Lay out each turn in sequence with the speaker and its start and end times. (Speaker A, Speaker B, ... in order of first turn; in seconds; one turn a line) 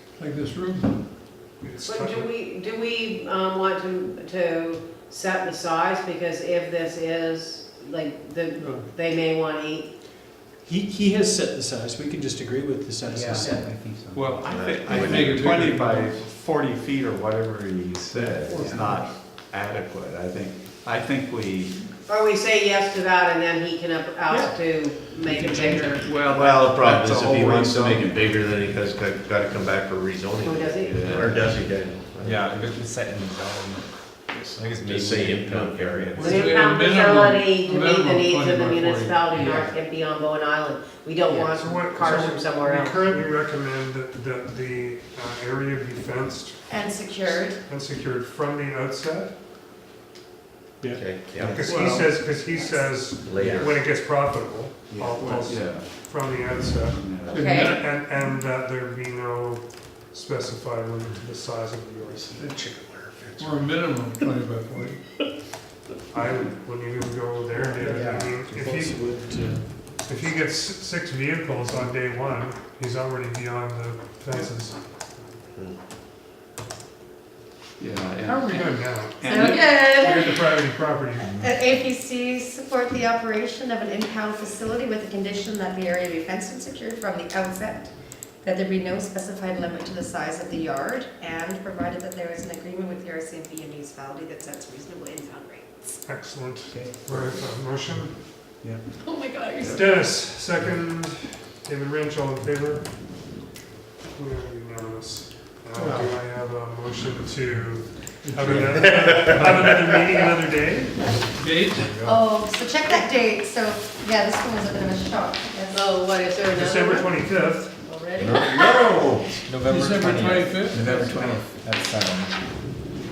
Speaker A: 0.1-1.0
Speaker B: 1.6-2.3
Speaker C: 1.8-9.9
Speaker D: 10.6-13.6
Speaker E: 13.1-14.5
Speaker C: 13.4-13.7
Speaker F: 14.1-21.8
Speaker G: 14.4-15.6
Speaker A: 14.8-16.3
Speaker A: 18.4-19.1
Speaker C: 22.1-26.1
Speaker F: 24.3-24.5
Speaker A: 25.3-26.0
Speaker F: 26.0-28.1
Speaker G: 26.3-32.4
Speaker C: 30.4-31.2
Speaker A: 31.0-31.4
Speaker E: 32.2-36.2
Speaker G: 34.8-36.5
Speaker A: 36.1-39.6
Speaker C: 36.2-43.2
Speaker B: 41.3-49.3
Speaker H: 46.7-47.6
Speaker G: 50.9-51.8
Speaker E: 51.4-51.7
Speaker B: 51.4-62.5
Speaker A: 51.6-52.1
Speaker H: 52.3-53.1
Speaker G: 53.1-53.8
Speaker G: 54.9-55.3
Speaker F: 55.1-55.9
Speaker F: 56.9-57.5
Speaker H: 57.2-57.8
Speaker A: 57.3-57.8
Speaker G: 62.4-63.7
Speaker A: 63.4-65.0
Speaker B: 66.1-69.2
Speaker D: 67.7-69.7
Speaker B: 69.8-74.8
Speaker F: 77.8-80.0
Speaker B: 78.2-81.3
Speaker H: 79.2-96.0
Speaker B: 96.0-98.2
Speaker E: 96.7-97.4
Speaker H: 99.0-99.9
Speaker B: 99.6-102.9
Speaker B: 104.1-111.3
Speaker A: 108.2-108.8
Speaker G: 109.0-109.3
Speaker A: 111.4-112.2
Speaker H: 112.0-116.2
Speaker C: 115.7-117.3
Speaker B: 116.5-117.7
Speaker C: 117.8-119.0
Speaker G: 118.2-119.4
Speaker E: 119.5-122.3
Speaker A: 119.6-121.4